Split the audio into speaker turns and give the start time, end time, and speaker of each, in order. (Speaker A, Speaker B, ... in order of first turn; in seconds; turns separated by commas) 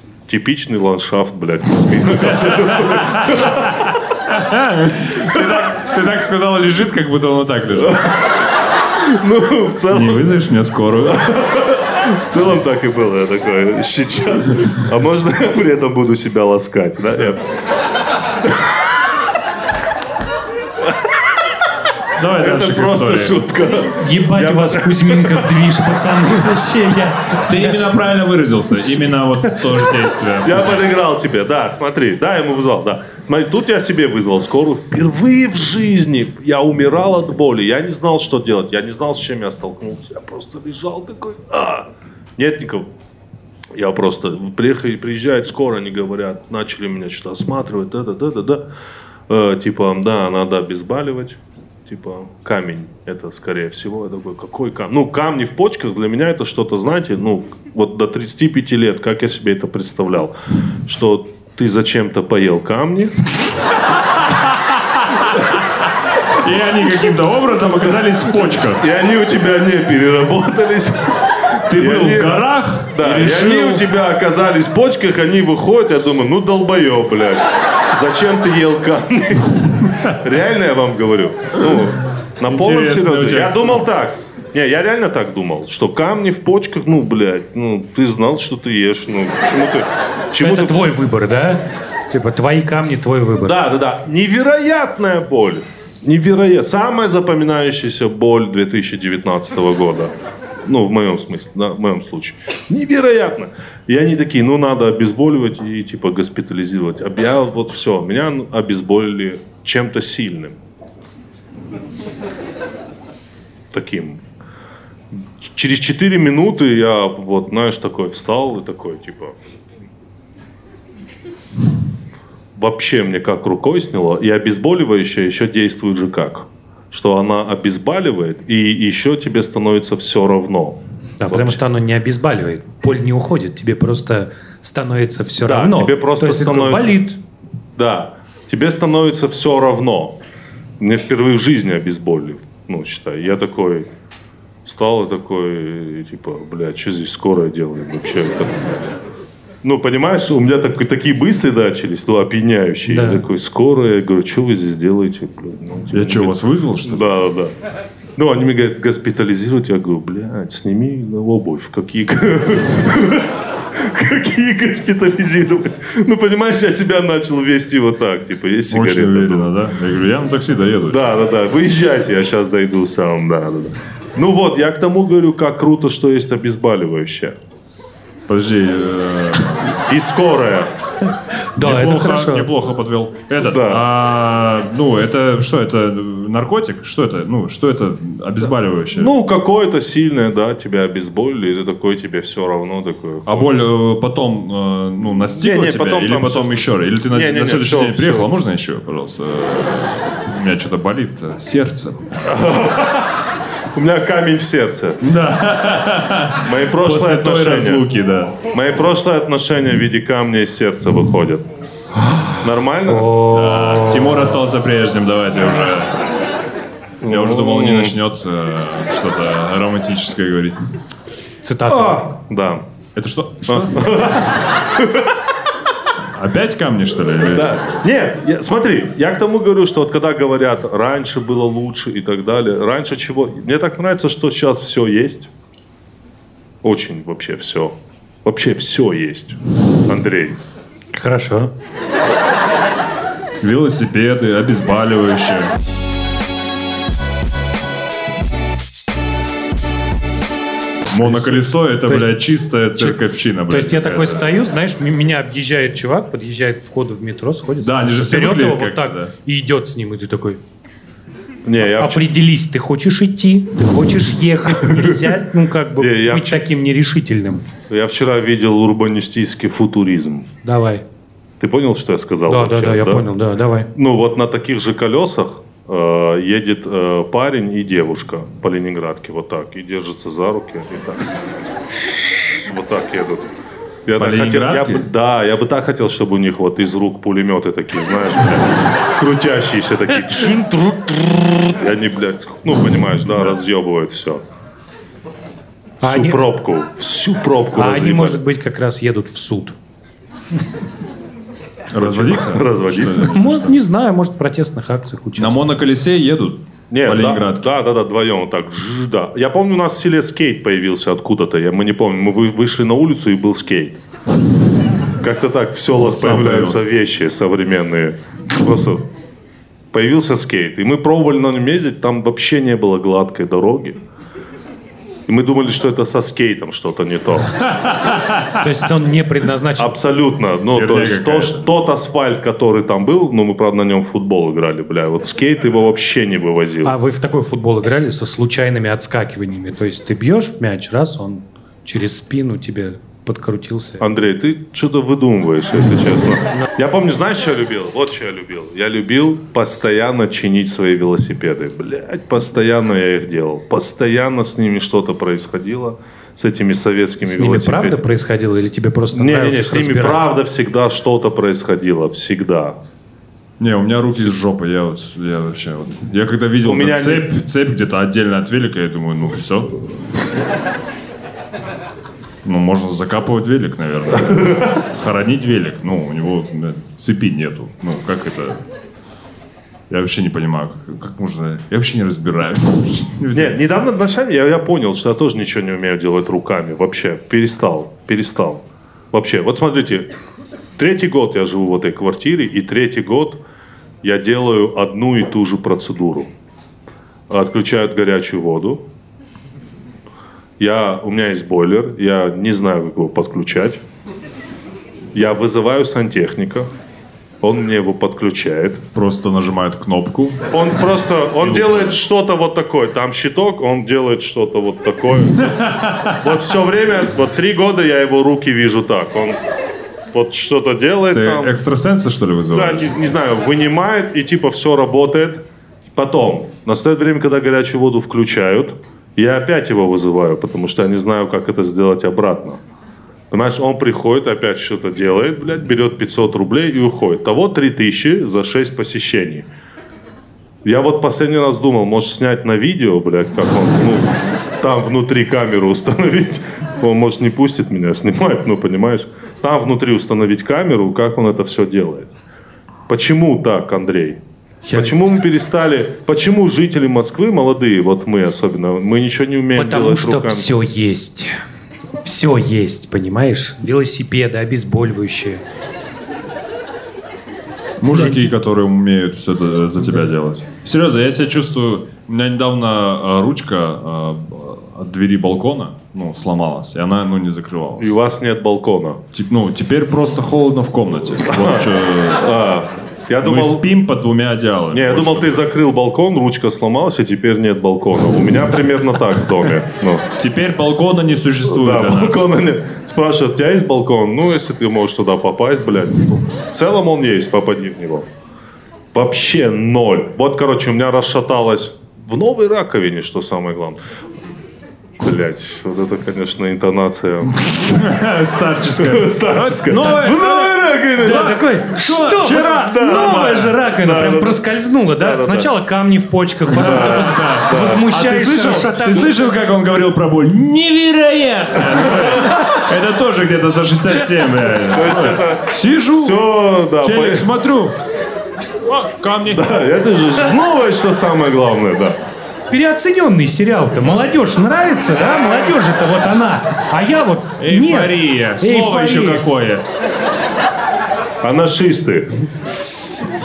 Speaker A: 0.3-4.0, Speaker B: 2.1-8.0, Speaker A: 5.3-5.6, Speaker A: 7.8-8.4, Speaker A: 9.0-10.3, Speaker B: 9.9-11.3, Speaker A: 11.1-17.4, Speaker B: 22.2-23.4, Speaker A: 22.2-25.5, Speaker C: 23.9-27.8, Speaker B: 27.5-30.9, Speaker A: 30.4-42.9, Speaker A: 43.8-48.6, Speaker A: 49.3-60.3, Speaker A: 60.9-63.1, Speaker B: 65.0-65.3, Speaker B: 66.4-68.8, Speaker A: 68.8-71.2, Speaker B: 71.7-73.8, Speaker A: 71.7-90.8, Speaker B: 81.6-81.9, Speaker B: 82.5-83.8, Speaker C: 90.4-93.6, Speaker A: 93.5-100.1, Speaker A: 100.7-110.6, Speaker A: 113.7-114.2, Speaker A: 115.1-119.3, Speaker A: 122.6-131.6, Speaker C: 131.2-137.2, Speaker A: 135.5-137.0, Speaker A: 137.8-140.2, Speaker A: 140.8-143.9, Speaker A: 144.7-148.8, Speaker A: 149.6-157.5, Speaker C: 152.9-153.2, Speaker B: 155.9-157.1, Speaker A: 158.2-169.5, Speaker B: 168.7-171.1, Speaker A: 170.9-177.4, Speaker B: 178.3-179.8, Speaker A: 179.9-180.7, Speaker C: 181.6-182.5, Speaker B: 181.6-189.1, Speaker A: 183.4-183.8, Speaker A: 188.9-193.6, Speaker B: 193.3-202.3, Speaker A: 195.3-198.3, Speaker A: 202.3-203.2, Speaker A: 203.8-205.0, Speaker B: 205.0-208.4, Speaker A: 206.4-207.9, Speaker A: 208.5-211.5, Speaker A: 212.4-213.1, Speaker C: 212.9-214.3, Speaker B: 213.3-216.0, Speaker A: 217.0-217.9, Speaker B: 217.1-220.6, Speaker C: 221.4-222.2, Speaker A: 221.7-222.7, Speaker B: 222.9-223.9, Speaker A: 223.5-225.1, Speaker B: 226.1-227.8, Speaker A: 227.3-235.3, Speaker A: 236.6-240.4, Speaker C: 240.9-241.5, Speaker B: 243.4-245.5, Speaker B: 250.9-254.2, Speaker C: 250.9-252.2, Speaker C: 252.8-260.4, Speaker B: 257.6-259.1, Speaker A: 261.5-262.1, Speaker C: 261.7-267.4, Speaker A: 265.8-266.4, Speaker A: 267.7-270.3, Speaker C: 270.4-270.8, Speaker A: 271.4-273.1, Speaker C: 272.3-273.7, Speaker A: 273.7-281.1, Speaker A: 281.8-283.3, Speaker A: 283.9-294.2, Speaker B: 284.0-284.9, Speaker C: 295.8-296.2, Speaker A: 295.8-298.2, Speaker C: 297.6-299.6, Speaker B: 301.7-303.6, Speaker A: 301.8-303.1, Speaker C: 302.8-305.4, Speaker B: 305.2-307.5, Speaker A: 306.7-313.8, Speaker A: 315.0-318.9, Speaker B: 315.8-316.6, Speaker A: 319.7-323.8, Speaker A: 325.1-327.4, Speaker B: 327.4-328.4, Speaker C: 328.4-329.8, Speaker A: 329.6-336.7, Speaker B: 330.5-331.5, Speaker C: 336.6-343.9, Speaker A: 343.8-357.8, Speaker C: 357.1-360.0, Speaker A: 358.9-362.6, Speaker B: 363.4-369.5, Speaker A: 366.4-367.1, Speaker B: 372.2-378.4, Speaker B: 379.7-383.4, Speaker A: 383.1-389.9, Speaker A: 390.6-393.2, Speaker A: 393.8-396.1, Speaker A: 397.1-398.6, Speaker A: 400.4-403.6, Speaker A: 404.9-406.5, Speaker A: 407.2-408.6, Speaker B: 408.7-410.2, Speaker A: 410.3-419.2, Speaker B: 411.2-411.7, Speaker B: 415.2-416.0, Speaker A: 419.9-421.3, Speaker B: 420.9-422.9, Speaker A: 422.3-425.2, Speaker A: 425.8-432.4, Speaker A: 433.1-439.3, Speaker A: 440.4-451.9, Speaker A: 452.7-454.0, Speaker C: 454.5-454.8, Speaker A: 454.5-460.3, Speaker C: 459.4-461.2, Speaker C: 461.8-465.2, Speaker B: 467.6-477.8, Speaker C: 467.7-468.1, Speaker A: 477.6-478.8, Speaker B: 478.9-482.1, Speaker A: 481.1-483.5, Speaker B: 483.0-485.3, Speaker A: 484.5-489.8, Speaker B: 490.0-492.1, Speaker A: 491.3-497.9, Speaker A: 498.7-503.6, Speaker A: 504.8-507.6, Speaker B: 507.2-512.5, Speaker A: 508.6-511.2, Speaker C: 510.8-518.9, Speaker A: 512.2-514.2, Speaker A: 514.8-515.3, Speaker B: 516.3-526.0, Speaker A: 516.3-517.7, Speaker A: 521.7-522.1, Speaker A: 524.5-527.1, Speaker B: 526.6-527.6, Speaker B: 528.5-529.3, Speaker A: 529.1-531.8, Speaker C: 532.3-539.0, Speaker A: 534.8-535.4, Speaker B: 537.2-539.5, Speaker A: 541.0-541.9